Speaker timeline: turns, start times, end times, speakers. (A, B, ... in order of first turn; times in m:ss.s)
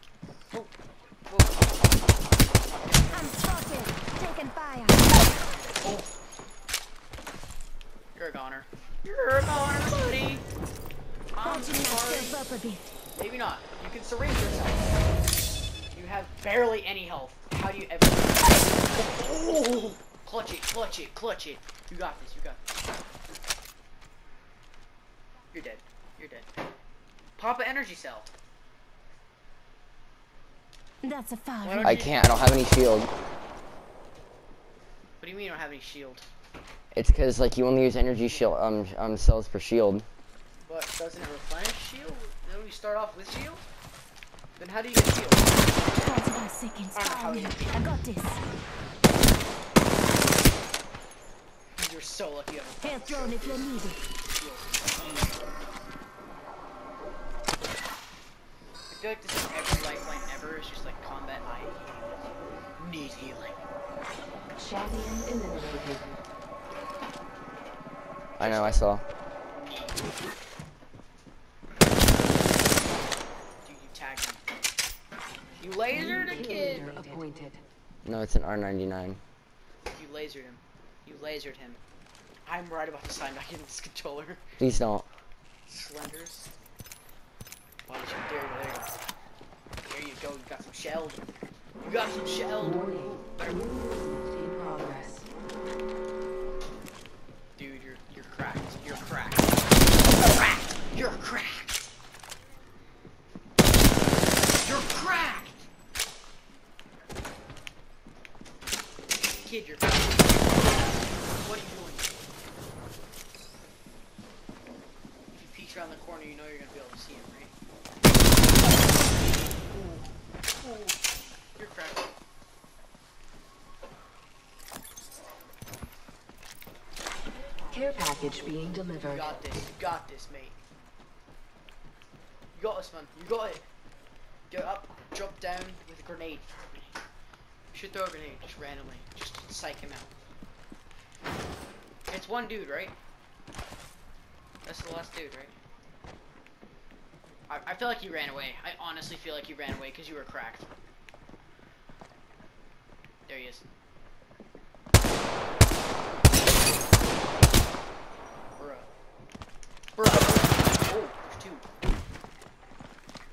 0:01.3-0:01.7 A
0:02.8-0:03.3 A
0:03.1-0:05.2 B
0:05.8-0:06.1 A
0:08.1-0:10.4 A
0:11.3-0:12.4 A
0:11.4-0:12.9 B
0:13.2-0:14.9 A
0:15.9-0:22.7 A
0:25.5-0:26.5 A
0:27.4-0:28.3 A
0:31.0-0:32.0 B
0:31.6-0:32.2 A
0:31.8-0:33.1 C
0:35.2-0:36.2 A
0:36.9-0:40.0 C
0:40.6-0:43.6 A
0:44.6-0:45.9 A
0:46.0-0:48.4 B
0:46.9-0:47.8 A
0:51.8-0:55.4 A
0:52.8-0:54.0 B
0:58.9-1:03.6 A
1:04.5-1:06.2 D
1:08.4-1:08.8 A
1:08.4-1:09.0 C
1:09.5-1:10.0 A
1:13.6-1:14.4 A
1:15.6-1:17.1 A
1:15.9-1:17.6 D
1:18.0-1:19.2 C
1:19.9-1:21.8 A
1:22.4-1:24.4 A
1:24.6-1:25.0 C
1:25.7-1:26.5 A
1:27.9-1:28.9 A
1:29.9-1:33.6 A
1:32.6-1:35.3 D
1:37.6-1:41.9 A
1:44.5-1:45.7 A
1:49.4-1:52.2 A
1:55.3-1:57.5 A
1:59.7-2:00.0 A
2:00.6-2:00.9 A
2:01.6-2:02.1 A
2:07.7-2:09.3 D
2:09.0-2:10.6 A
2:12.5-2:13.6 A
2:14.5-2:17.0 A
2:17.7-2:20.1 A
2:22.1-2:22.9 A
2:24.6-2:25.5 A
2:27.5-2:30.7 A
2:33.3-2:33.6 A
2:38.6-2:38.9 A
2:40.0-2:41.6 A